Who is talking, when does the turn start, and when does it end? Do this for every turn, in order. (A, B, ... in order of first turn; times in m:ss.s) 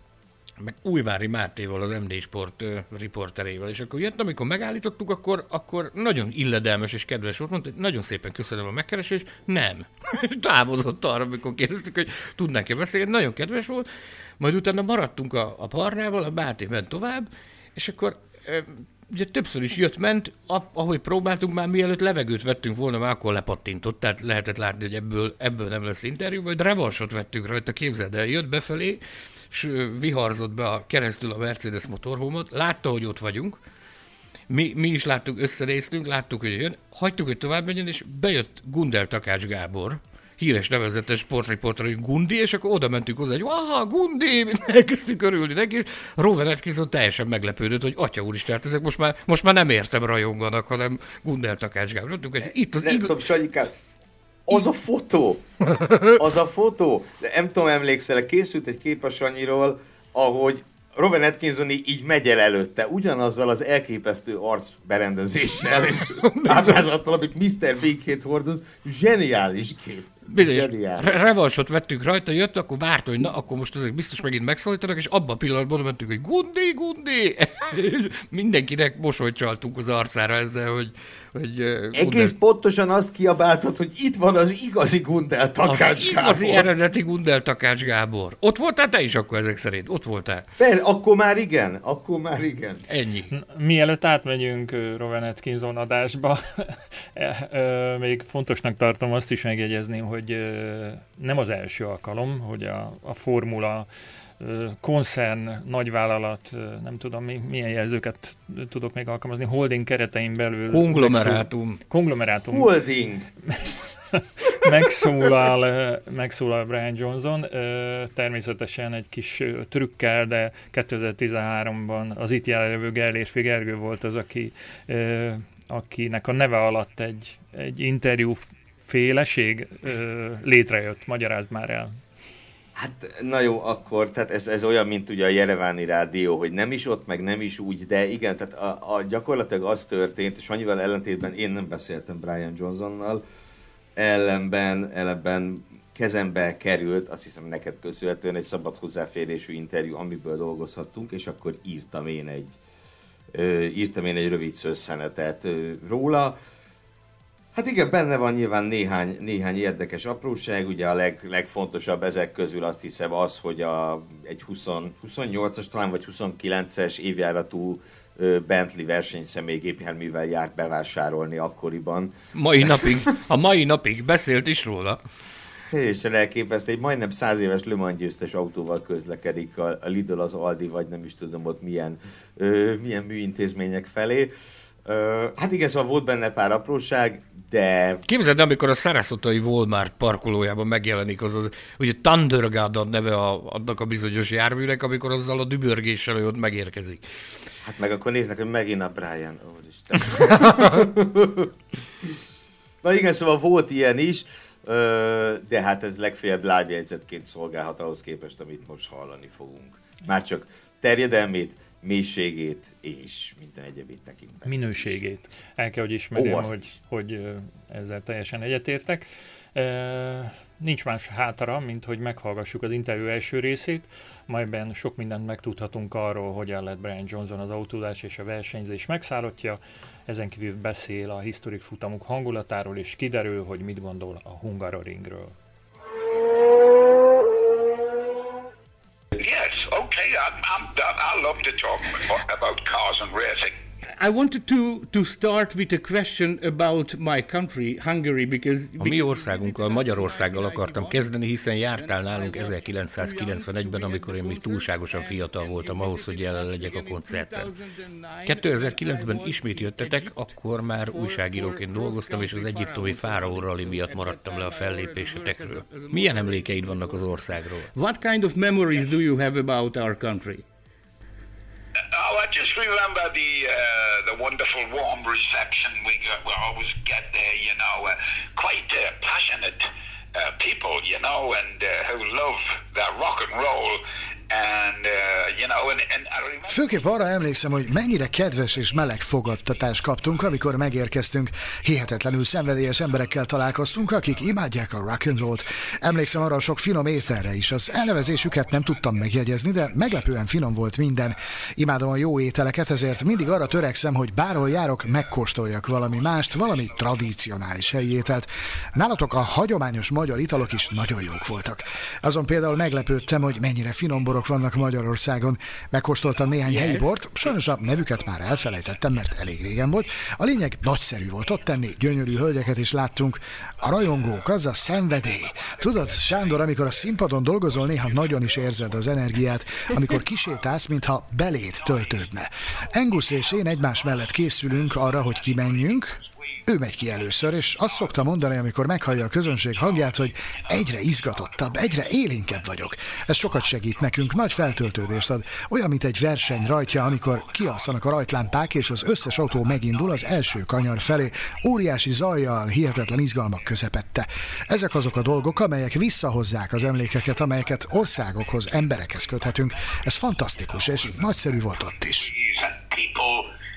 0:00.6-0:13.8 A
0:14.4-0:33.6 A
0:34.5-0:53.2 A
0:52.8-0:53.7 B
0:54.4-0:55.4 B
0:56.0-1:11.2 B
1:06.2-1:06.8 A
1:10.3-1:22.3 A
1:21.9-1:26.7 B
1:25.6-1:30.4 A
1:30.6-1:32.8 B
1:32.9-1:33.3 A
1:33.3-1:43.9 C
1:44.4-1:52.7 C
1:50.7-1:51.8 A
1:52.5-1:53.3 B
1:53.6-2:12.0 C
2:12.8-2:23.2 B
2:24.0-2:32.6 B
2:33.3-2:36.4 B
2:37.5-2:53.0 B
2:52.3-2:55.0 A
2:55.7-3:04.3 B
3:04.8-3:08.0 B
3:08.1-3:17.0 A
3:17.6-3:21.5 B
3:22.8-3:35.0 B
3:34.4-3:55.3 C
3:36.1-3:36.7 B
3:59.1-4:03.6 D
4:03.9-4:11.0 E
4:08.8-4:17.5 A
4:11.7-4:20.3 E
4:18.2-4:27.7 A
4:20.8-4:30.4 E
4:31.9-4:47.0 D
4:46.5-6:02.1 F
4:57.7-4:59.1 D
5:02.7-5:09.4 D
5:10.2-5:11.6 D
5:16.4-5:17.4 E
5:17.6-5:18.6 D
5:23.6-5:29.1 D
5:29.7-5:30.5 D
5:31.3-5:45.1 D
5:46.2-5:51.4 D
5:56.9-6:00.9 D
6:01.8-6:03.3 D